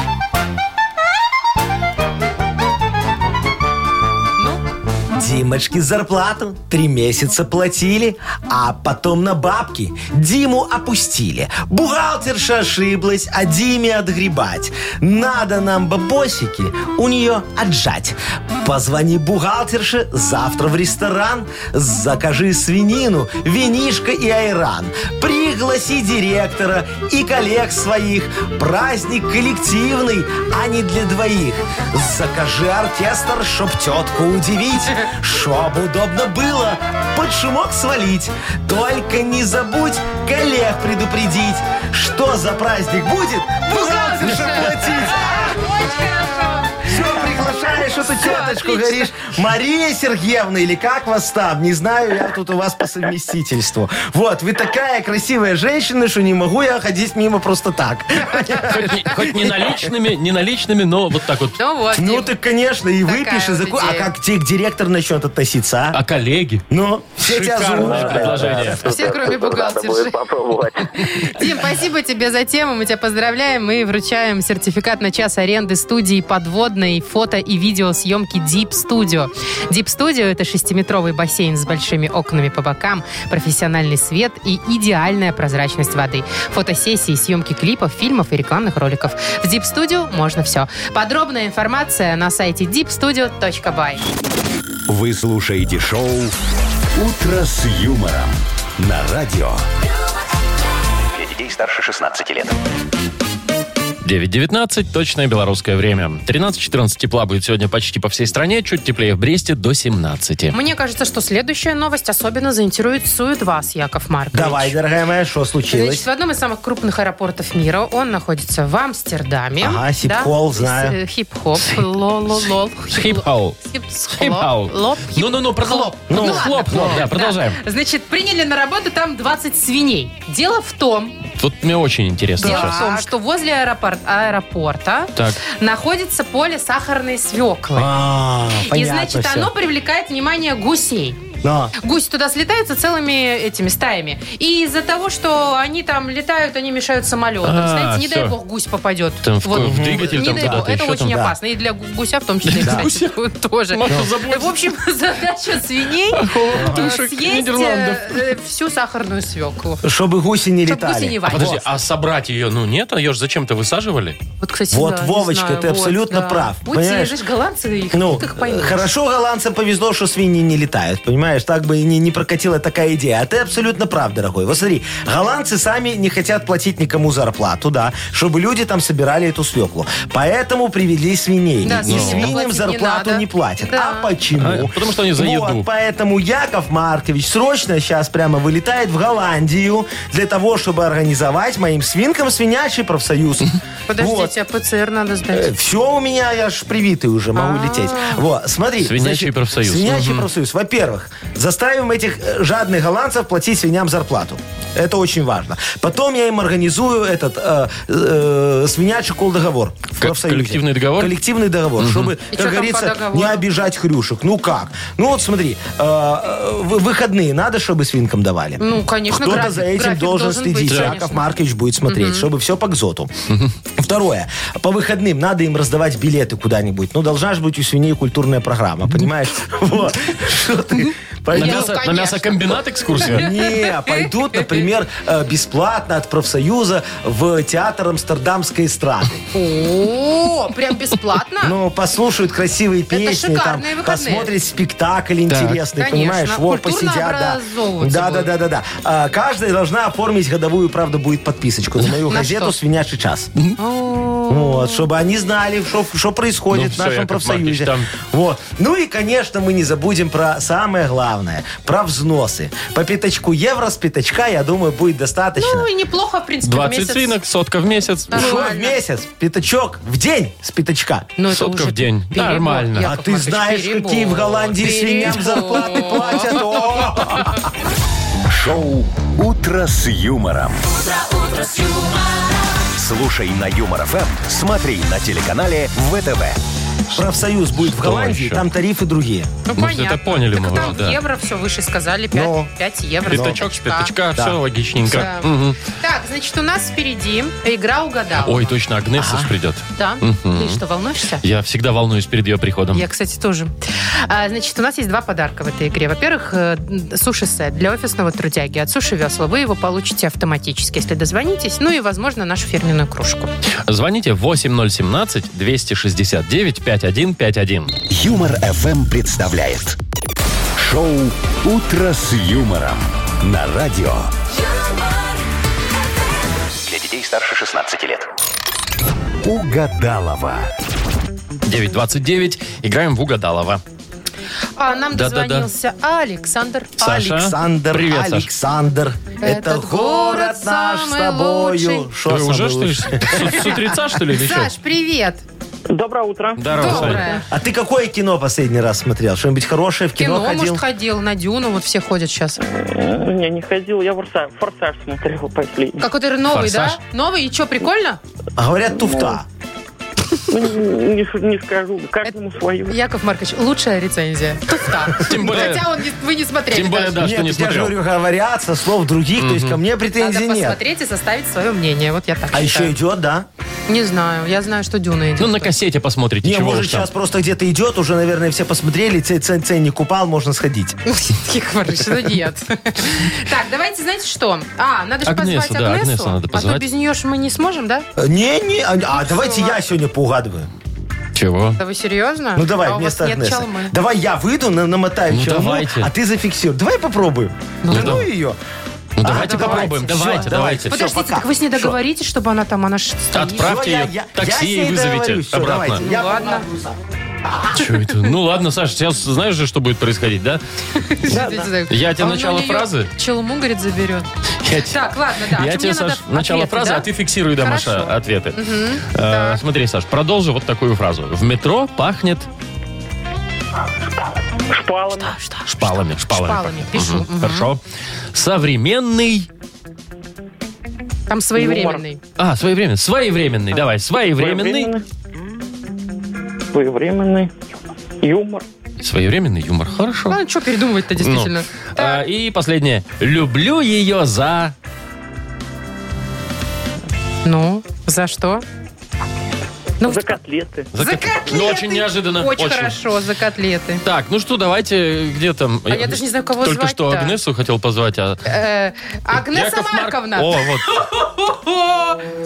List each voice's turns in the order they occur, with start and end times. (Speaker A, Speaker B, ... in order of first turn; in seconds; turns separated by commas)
Speaker A: 5.1-45.5, Speaker B: 43.7-49.1, Speaker A: 46.8-59.9, Speaker C: 58.5-61.6, Speaker B: 61.6-62.3, Speaker A: 61.9-66.0, Speaker B: 63.0-64.1, Speaker C: 65.9-66.6, Speaker A: 66.7-68.8, Speaker C: 67.2-68.8, Speaker D: 67.8-71.0, Speaker B: 68.6-70.2, Speaker B: 70.8-94.0, Speaker E: 94.9-96.3, Speaker E: 96.9-99.6, Speaker F: 101.1-102.5, Speaker C: 104.0-110.5, Speaker B: 110.5-114.8, Speaker A: 114.3-116.0, Speaker B: 115.7-131.2, Speaker A: 119.6-121.0, Speaker C: 122.9-123.6, Speaker C: 124.1-127.6, Speaker A: 126.1-127.1, Speaker C: 131.4-132.8, Speaker A: 132.4-133.1, Speaker B: 132.4-137.9, Speaker A: 137.7-139.5, Speaker B: 138.7-141.2, Speaker A: 141.4-141.7, Speaker B: 141.8-159.8, Speaker C: 147.4-148.3, Speaker C: 149.2-151.2, Speaker A: 149.6-151.3, Speaker C: 152.4-153.2, Speaker A: 152.6-152.9, Speaker C: 153.7-154.6, Speaker C: 156.1-158.3, Speaker A: 156.6-156.9, Speaker A: 159.8-161.6, Speaker B: 160.7-161.6, Speaker C: 161.3-164.2, Speaker B: 164.4-168.9, Speaker A: 164.7-167.2, Speaker A: 167.9-194.3, Speaker B: 181.6-184.1, Speaker C: 181.8-182.3, Speaker C: 184.4-185.7, Speaker B: 193.9-195.5, Speaker A: 195.3-223.1, Speaker B: 197.3-198.2, Speaker C: 198.8-200.3, Speaker C: 210.0-211.1, Speaker C: 211.8-212.1, Speaker B: 212.3-213.5, Speaker B: 218.6-221.2, Speaker C: 220.7-220.9, Speaker B: 221.9-222.3, Speaker A: 223.8-231.8, Speaker C: 231.3-233.3, Speaker B: 231.3-234.6, Speaker A: 233.1-239.2, Speaker B: 239.3-241.6, Speaker A: 241.4-253.3, Speaker B: 242.9-244.3, Speaker C: 245.3-245.6, Speaker B: 245.8-248.3, Speaker B: 252.1-252.6, Speaker B: 253.6-254.9, Speaker A: 254.3-265.7, Speaker C: 256.5-257.9, Speaker B: 265.4-267.1, Speaker C: 266.4-268.4, Speaker B: 268.1-268.8, Speaker A: 268.1-271.1, Speaker B: 271.2-276.4, Speaker C: 271.3-272.9, Speaker A: 272.8-277.5, Speaker E: 278.3-280.7, Speaker F: 280.9-281.9, Speaker E: 282.7-286.4, Speaker A: 286.9-289.3, Speaker C: 287.6-288.4, Speaker B: 289.5-293.9, Speaker C: 289.6-291.0, Speaker A: 292.1-292.5, Speaker C: 293.1-295.6, Speaker A: 293.1-293.4, Speaker B: 294.9-298.6, Speaker C: 298.2-300.6, Speaker A: 298.9-299.3, Speaker B: 299.8-301.2, Speaker C: 301.2-302.8, Speaker B: 302.7-313.3, Speaker C: 313.7-317.7, Speaker E: 317.9-319.8, Speaker E: 320.6-324.1, Speaker F: 326.6-328.1, Speaker E: 329.2-330.5, Speaker C: 331.4-333.6, Speaker B: 334.6-336.8, Speaker C: 334.9-335.5, Speaker A: 336.8-343.7, Speaker C: 336.8-338.3, Speaker B: 339.2-341.9, Speaker C: 342.1-344.5, Speaker B: 343.1-343.5, Speaker B: 344.1-345.2, Speaker G: 345.7-346.8, Speaker C: 346.4-347.0, Speaker B: 346.6-347.2, Speaker A: 346.7-350.6, Speaker B: 349.9-352.4, Speaker G: 352.6-355.8, Speaker B: 355.8-358.0, Speaker C: 356.3-356.8, Speaker A: 358.4-359.2, Speaker G: 360.3-362.7, Speaker B: 362.1-367.0, Speaker C: 365.0-365.8, Speaker C: 366.5-367.7, Speaker A: 367.0-370.6, Speaker C: 369.2-369.6, Speaker B: 369.8-372.7, Speaker A: 372.3-373.3, Speaker B: 373.7-375.5, Speaker C: 375.2-376.9, Speaker A: 376.2-380.8, Speaker B: 380.9-387.9, Speaker C: 385.1-386.6, Speaker A: 387.9-390.5, Speaker B: 388.9-389.6, Speaker C: 391.1-391.6, Speaker B: 391.6-393.7, Speaker A: 392.3-398.4, Speaker C: 395.1-395.9, Speaker B: 397.6-398.0, Speaker C: 397.7-398.1, Speaker C: 399.0-400.7, Speaker A: 399.0-401.8, Speaker B: 399.1-400.1, Speaker B: 400.7-403.4, Speaker C: 403.1-405.8, Speaker A: 403.3-407.6, Speaker B: 405.8-406.4, Speaker C: 407.5-410.4, Speaker B: 410.8-419.4, Speaker A: 411.1-411.5, Speaker C: 411.7-412.9, Speaker C: 414.4-422.3, Speaker G: 424.5-425.1, Speaker B: 425.0-427.5, Speaker C: 425.5-427.6, Speaker C: 428.1-429.3, Speaker B: 431.1-432.0, Speaker G: 431.4-431.8, Speaker C: 432.2-434.8, Speaker G: 434.2-434.8, Speaker G: 436.5-437.3, Speaker G: 438.0-438.4, Speaker C: 438.8-440.2, Speaker B: 440.1-442.1, Speaker C: 440.9-444.5, Speaker B: 447.2-448.4, Speaker B: 449.8-450.2, Speaker G: 449.8-450.6, Speaker C: 450.7-452.8, Speaker B: 450.7-453.8, Speaker C: 453.8-458.2, Speaker B: 455.7-457.1, Speaker B: 458.2-462.0, Speaker C: 459.1-460.8